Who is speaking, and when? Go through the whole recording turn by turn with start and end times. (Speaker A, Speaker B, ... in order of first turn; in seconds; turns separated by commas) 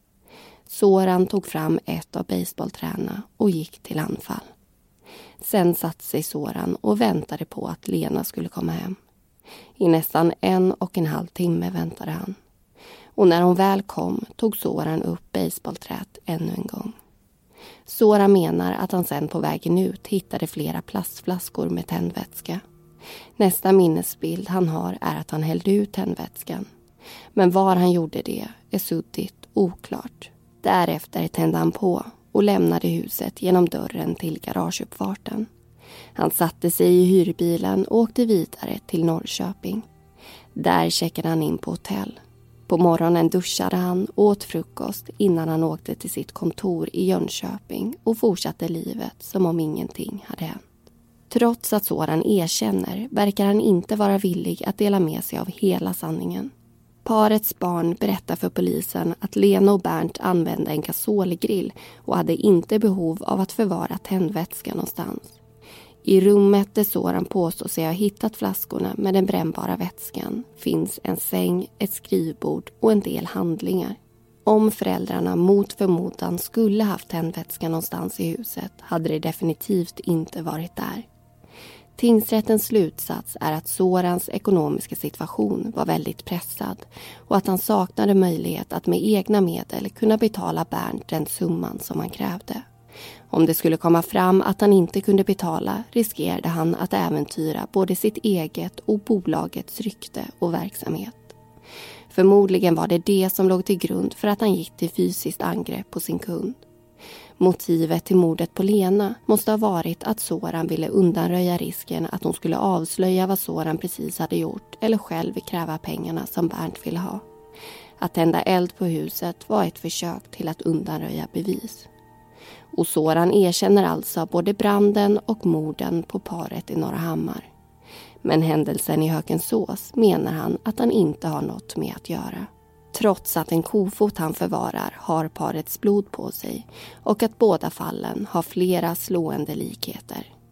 Speaker A: 0.7-4.5, Speaker A: 5.4-9.0, Speaker A: 9.8-12.4, Speaker A: 13.2-17.0, Speaker A: 17.9-22.6, Speaker A: 23.4-26.7, Speaker A: 27.4-35.5, Speaker A: 36.2-39.9, Speaker A: 40.5-42.2, Speaker A: 42.7-50.6, Speaker A: 51.3-56.5, Speaker A: 57.0-65.4, Speaker A: 66.0-81.1, Speaker A: 82.0-92.7, Speaker A: 93.3-101.3, Speaker A: 102.1-106.6, Speaker A: 107.4-117.2, Speaker A: 118.0-121.9, Speaker A: 122.7-127.5, Speaker A: 128.2-140.3